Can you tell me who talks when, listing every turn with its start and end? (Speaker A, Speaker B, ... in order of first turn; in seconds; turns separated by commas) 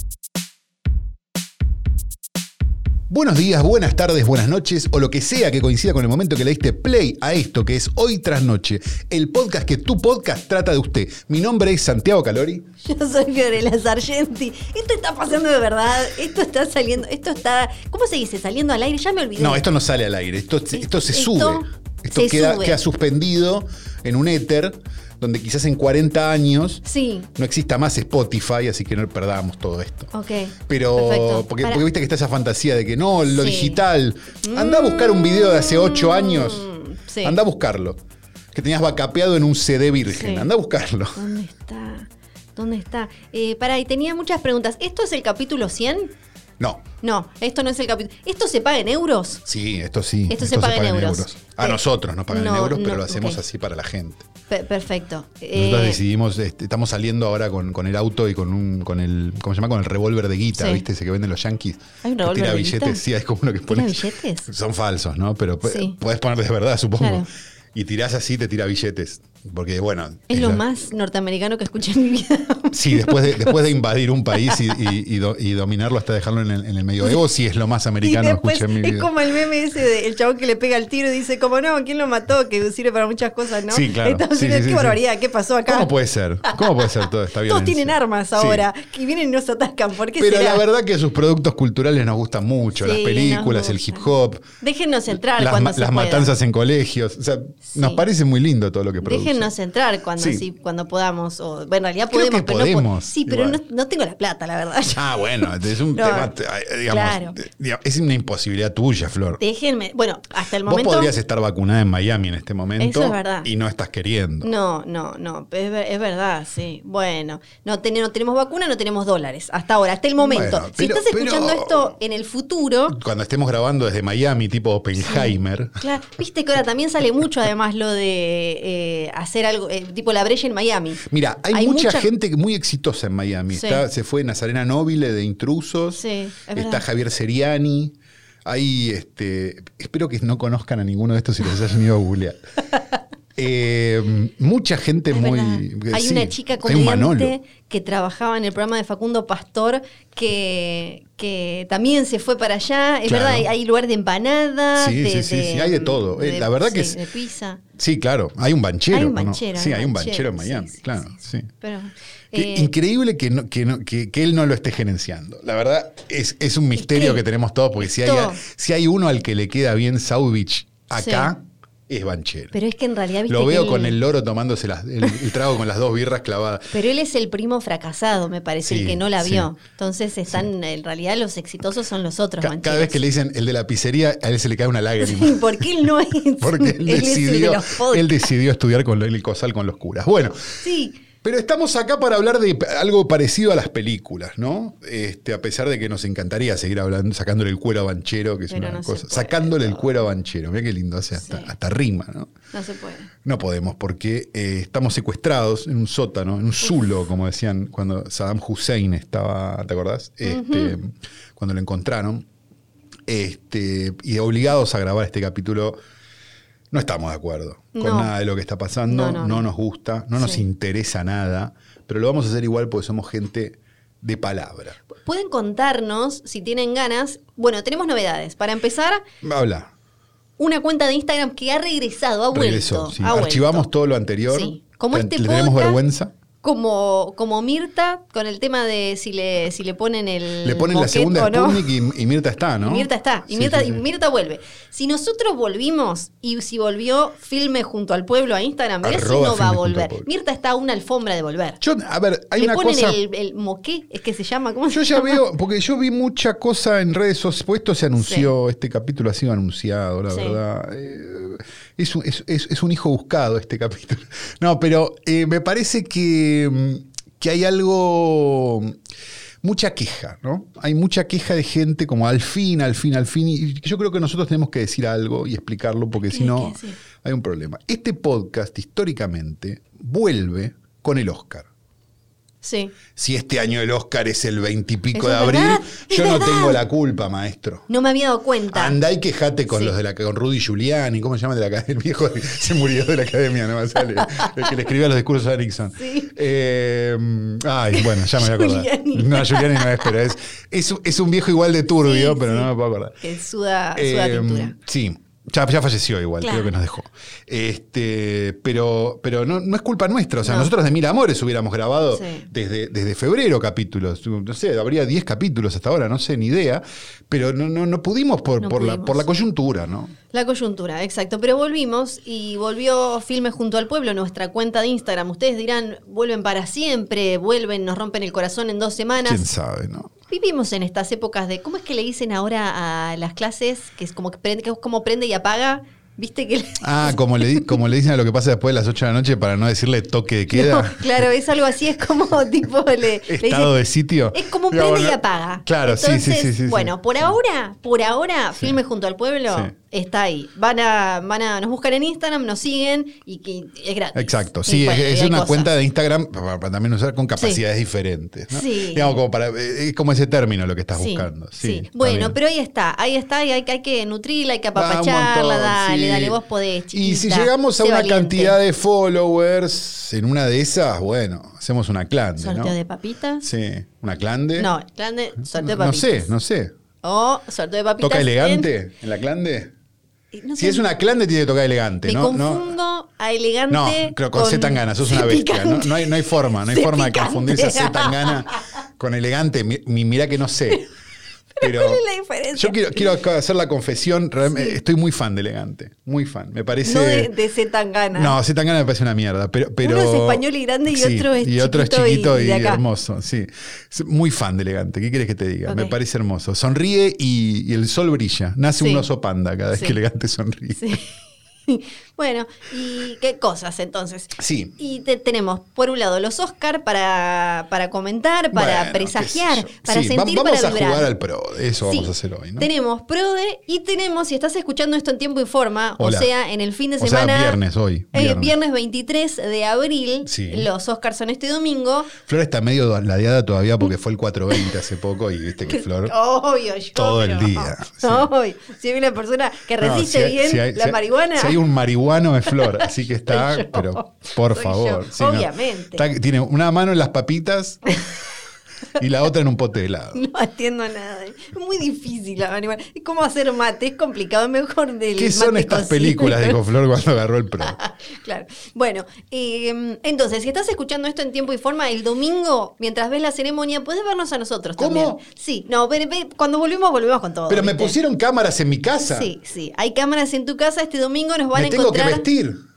Speaker A: 3.1-12.7, Speaker B: 12.8-19.6, Speaker A: 19.4-26.8, Speaker B: 20.7-22.8, Speaker B: 26.8-27.3, Speaker A: 27.3-36.7, Speaker B: 30.1-31.8, Speaker B: 33.2-33.8, Speaker B: 34.4-37.4, Speaker A: 37.2-38.0, Speaker A: 38.5-41.2, Speaker B: 40.1-40.5, Speaker B: 41.1-46.1, Speaker A: 46.6-46.9, Speaker B: 47.0-49.4, Speaker A: 49.5-54.3, Speaker B: 50.3-53.4, Speaker B: 54.5-56.0, Speaker A: 55.5-70.6, Speaker B: 60.5-60.8, Speaker B: 62.0-63.0, Speaker B: 63.7-64.5, Speaker B: 65.6-66.0, Speaker B: 67.0-67.3, Speaker B: 70.3-73.6, Speaker A: 72.7-79.2, Speaker B: 74.3-74.8, Speaker B: 78.0-85.9, Speaker A: 83.7-85.0, Speaker A: 85.7-88.7, Speaker B: 86.4-90.6, Speaker A: 90.2-94.5, Speaker B: 92.8-94.1, Speaker B: 94.6-96.3, Speaker A: 95.1-99.5, Speaker B: 97.7-98.0, Speaker B: 99.0-106.3, Speaker A: 100.2-100.4, Speaker A: 102.1-103.6, Speaker A: 104.9-109.4, Speaker B: 106.9-107.4, Speaker B: 109.4-111.1, Speaker A: 110.6-114.5, Speaker B: 112.8-113.5, Speaker B: 114.4-123.0, Speaker A: 120.2-121.9, Speaker A: 122.9-125.8, Speaker B: 125.0-132.1, Speaker A: 131.0-136.0, Speaker B: 133.5-133.8, Speaker B: 135.9-136.8, Speaker A: 136.5-142.4, Speaker A: 143.3-147.3, Speaker B: 145.1-157.6, Speaker A: 153.0-153.5, Speaker A: 154.7-157.0, Speaker A: 157.8-161.5, Speaker B: 158.9-162.7, Speaker A: 162.3-172.5, Speaker B: 166.8-167.2, Speaker B: 167.8-168.4, Speaker B: 171.0-171.3, Speaker B: 172.5-174.0, Speaker A: 173.3-176.7, Speaker B: 176.7-183.0, Speaker A: 178.6-179.5, Speaker A: 182.4-185.9, Speaker B: 185.0-188.3, Speaker A: 186.4-190.5, Speaker B: 190.5-191.0, Speaker A: 191.2-202.3, Speaker B: 198.5-199.9, Speaker B: 201.2-201.5, Speaker B: 202.5-203.1, Speaker A: 203.2-212.2, Speaker B: 210.2-210.8, Speaker A: 213.1-215.8, Speaker A: 216.7-224.8, Speaker B: 217.7-218.1, Speaker B: 218.9-219.4, Speaker B: 220.2-220.4, Speaker B: 224.9-229.0, Speaker A: 229.2-229.7, Speaker B: 230.4-233.7, Speaker A: 232.3-236.1, Speaker B: 234.3-235.8, Speaker B: 236.4-241.7, Speaker A: 240.4-243.8, Speaker B: 242.6-251.6, Speaker A: 248.8-250.1, Speaker A: 251.6-253.0, Speaker B: 252.4-255.2, Speaker A: 254.7-268.8, Speaker B: 258.0-258.3, Speaker B: 260.1-260.4, Speaker A: 269.4-281.5, Speaker B: 276.1-276.8, Speaker B: 282.4-282.7, Speaker A: 282.9-287.7, Speaker B: 284.9-286.6, Speaker B: 287.7-288.8, Speaker A: 288.5-303.0, Speaker B: 289.5-289.7, Speaker B: 294.0-294.5, Speaker B: 295.8-296.1, Speaker B: 297.7-299.9, Speaker B: 301.8-302.5, Speaker B: 303.0-304.6, Speaker A: 303.8-319.9, Speaker B: 306.2-306.5, Speaker B: 310.2-310.5, Speaker B: 311.9-312.3, Speaker B: 318.4-319.0, Speaker B: 320.1-329.2, Speaker A: 329.0-329.9, Speaker B: 330.1-337.6, Speaker A: 336.6-341.1, Speaker B: 340.3-343.5, Speaker A: 343.1-346.7, Speaker B: 344.1-355.5, Speaker A: 353.9-362.1, Speaker B: 358.3-359.0, Speaker B: 360.7-368.4, Speaker A: 364.6-366.2, Speaker A: 366.7-372.5, Speaker B: 372.2-373.2, Speaker A: 373.2-374.5, Speaker B: 374.4-376.1, Speaker A: 375.2-376.5, Speaker B: 376.8-378.5, Speaker A: 377.8-379.5, Speaker B: 380.1-380.6, Speaker A: 380.4-382.5, Speaker B: 381.8-388.4, Speaker A: 383.5-390.7, Speaker B: 391.3-392.9, Speaker A: 391.4-391.8, Speaker A: 392.3-397.1, Speaker B: 394.2-394.6, Speaker B: 396.6-398.2, Speaker A: 397.9-410.8, Speaker B: 399.6-402.6, Speaker B: 405.5-405.7, Speaker B: 408.6-408.9, Speaker B: 409.5-409.8, Speaker B: 410.6-410.9, Speaker B: 411.5-420.9, Speaker A: 414.2-414.5, Speaker A: 418.3-422.5, Speaker B: 421.6-427.4, Speaker A: 425.8-426.1, Speaker A: 426.8-428.3, Speaker B: 427.9-431.9, Speaker A: 430.1-430.5, Speaker A: 432.0-435.9, Speaker B: 435.5-441.4, Speaker A: 436.7-438.1, Speaker A: 439.6-447.7, Speaker B: 442.3-445.8, Speaker A: 448.8-450.0, Speaker B: 449.9-456.4, Speaker A: 455.0-457.6, Speaker B: 457.4-467.8, Speaker A: 464.6-465.0, Speaker A: 467.3-469.1, Speaker B: 468.9-472.1, Speaker A: 471.3-472.4